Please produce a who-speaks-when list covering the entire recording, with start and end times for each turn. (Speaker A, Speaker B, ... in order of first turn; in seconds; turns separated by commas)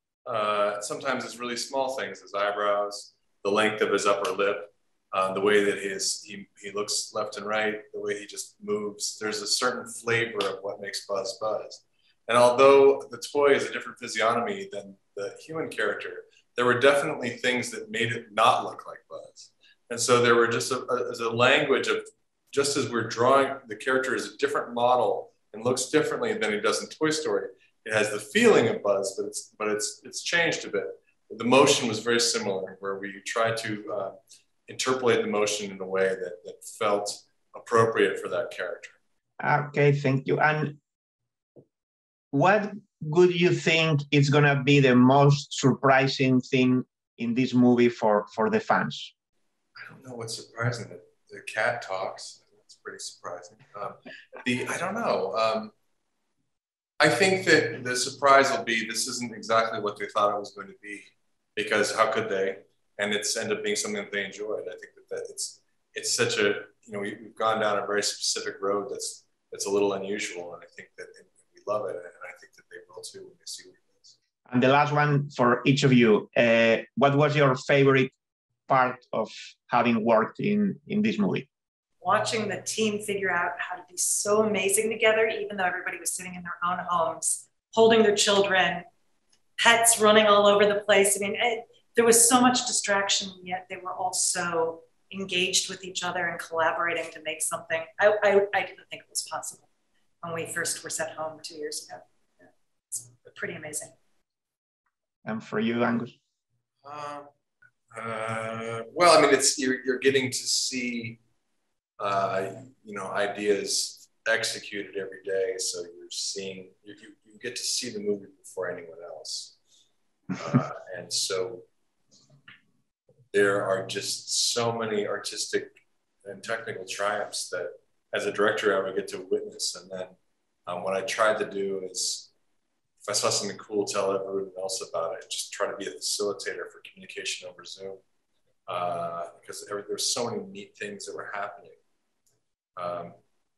Speaker A: 0.3-34.1, Speaker A: 34.7-39.0, Speaker B: 39.4-40.8, Speaker B: 42.3-49.1, Speaker A: 49.8-55.7, Speaker A: 57.0-74.1, Speaker B: 74.5-78.1, Speaker B: 78.7-81.5, Speaker C: 82.0-88.9, Speaker C: 89.6-99.7, Speaker C: 100.2-103.9, Speaker B: 105.2-106.1, Speaker A: 106.8-107.3, Speaker A: 107.9-111.2, Speaker A: 112.0-119.6, Speaker A: 120.4-121.7, Speaker A: 123.3-130.2, Speaker A: 130.7-132.3, Speaker A: 133.0-138.0, Speaker A: 138.7-141.8, Speaker A: 142.8-143.2